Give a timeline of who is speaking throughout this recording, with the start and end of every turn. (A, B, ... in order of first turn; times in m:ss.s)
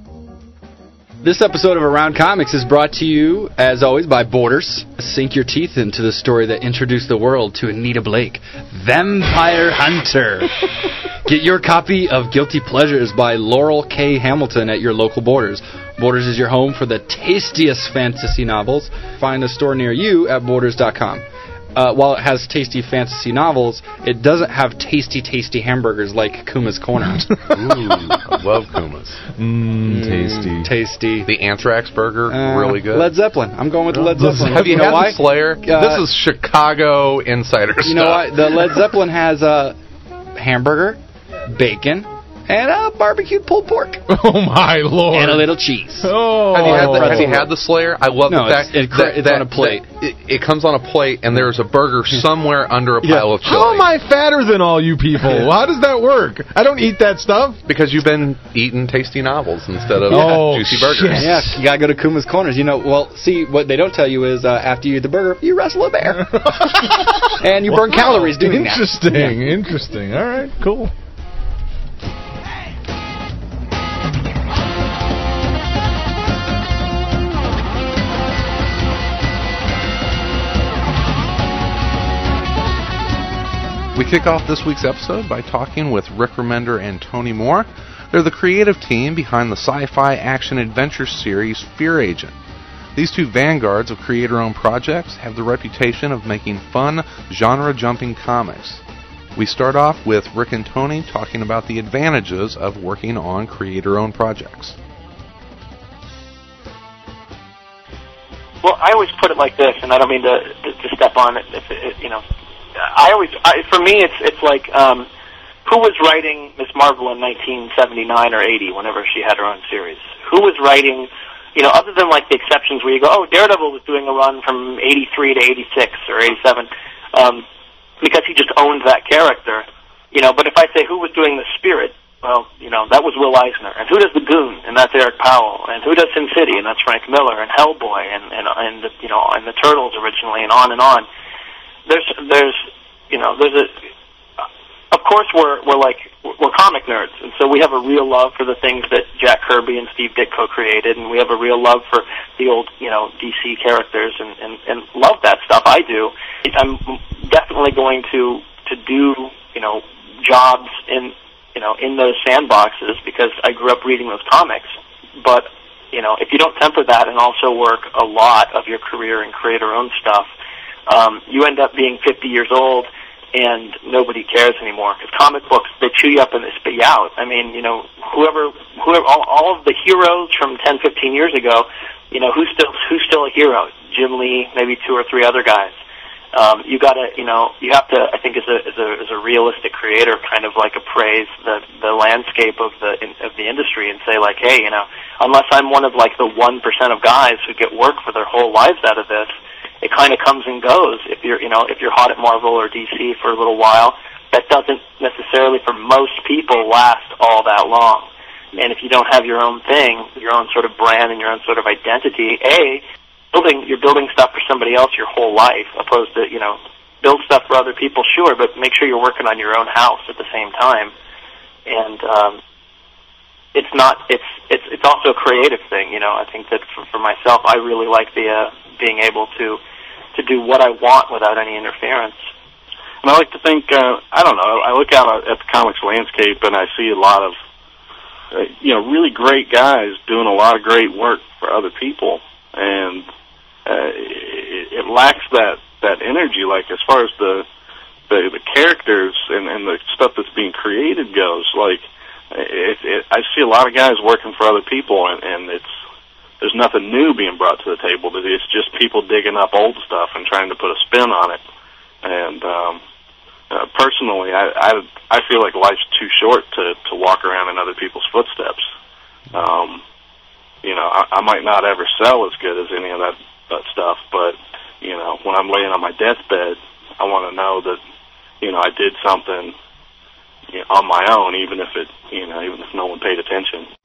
0:01.2-0:27.4 A
0:27.5-0:29.3 B
0:29.3-0:30.7 C
0:29.8-0:31.3 A
0:31.2-0:33.1 B
0:32.3-0:36.0 A
0:34.0-0:35.1 C
0:34.2-0:38.6 B
0:37.8-0:39.8 A
0:40.3-0:44.0 A
0:44.1-0:47.4 C
0:45.1-0:47.5 A
0:46.5-0:53.9 B
0:48.3-0:49.8 A
0:53.0-0:53.3 A
0:53.4-0:57.6 C
0:57.6-1:01.4 B
1:00.0-1:01.6 C
1:01.1-1:09.4 A
1:06.4-1:06.9 C
1:07.6-1:10.9 C
1:23.9-1:32.4 B
1:32.9-1:38.8 B
1:39.4-1:44.8 B
1:48.6-1:52.2 D
1:52.8-1:55.1 D
1:55.6-2:07.4 D
2:08.0-2:21.0 D
2:21.9-2:23.7 D
2:24.9-2:50.3 D
2:50.9-3:05.7 D
3:06.3-3:19.3 D
3:19.8-3:40.9 D
3:41.7-3:42.4 D
3:43.5-3:49.6 D
3:50.1-3:52.2 D
3:53.0-3:57.3 E
3:58.3-4:03.0 E
4:03.6-4:07.4 E
4:08.1-4:15.7 E
4:16.4-4:21.4 E
4:22.0-4:22.8 E
4:23.5-4:28.7 E
4:29.3-4:29.8 E
4:30.6-4:37.8 E
4:38.4-4:39.5 E
4:40.5-4:43.7 E